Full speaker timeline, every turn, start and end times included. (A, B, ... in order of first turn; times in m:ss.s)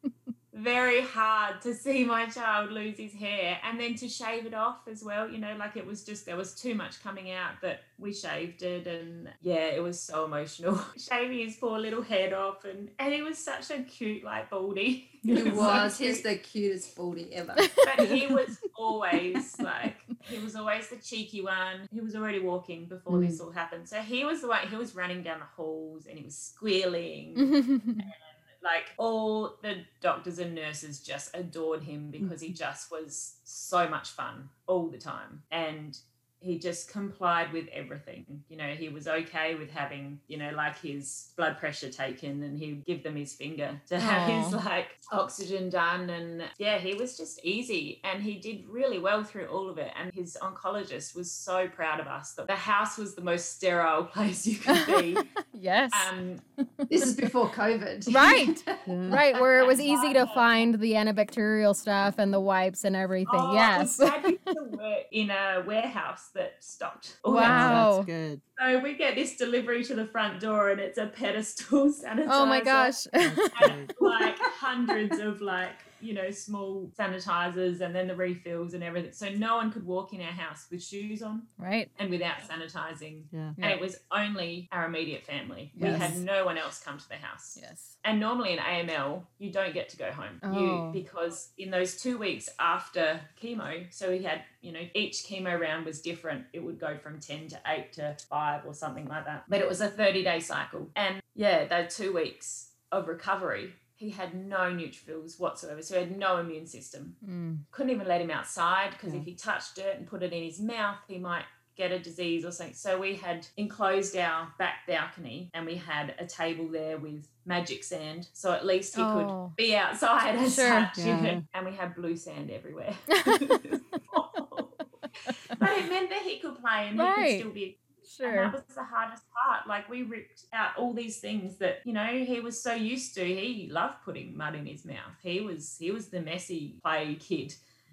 0:00.5-0:16.2 A
0:15.2-0:15.7 B
0:15.3-0:17.8 C
0:17.8-0:55.3 A
0:23.1-0:23.4 C
0:27.4-0:28.1 D
0:32.2-0:32.5 B
0:44.0-0:44.6 D
0:54.7-0:56.1 D
0:55.9-0:56.4 A
0:56.8-0:57.1 D
0:56.9-0:58.9 C
0:58.1-1:04.3 D
0:58.8-0:59.2 B
0:59.3-1:00.6 A
1:03.2-1:07.9 A
1:07.3-1:08.1 D
1:07.4-1:08.4 B
1:08.6-1:13.0 A
1:12.2-1:13.6 D
1:13.2-1:13.9 B
1:13.5-1:47.2 A
1:21.6-1:21.9 D
1:23.3-1:23.6 B
1:25.8-1:26.2 D
1:25.8-1:26.1 B
1:27.6-1:28.0 D
1:30.4-1:31.0 D
1:47.2-1:47.6 D
1:47.7-2:04.8 A
1:58.9-1:59.6 D
2:00.4-2:00.9 D
2:01.0-2:01.4 B
2:03.2-2:03.5 D
2:05.5-2:17.6 A
2:06.9-2:07.4 D
2:08.1-2:08.5 D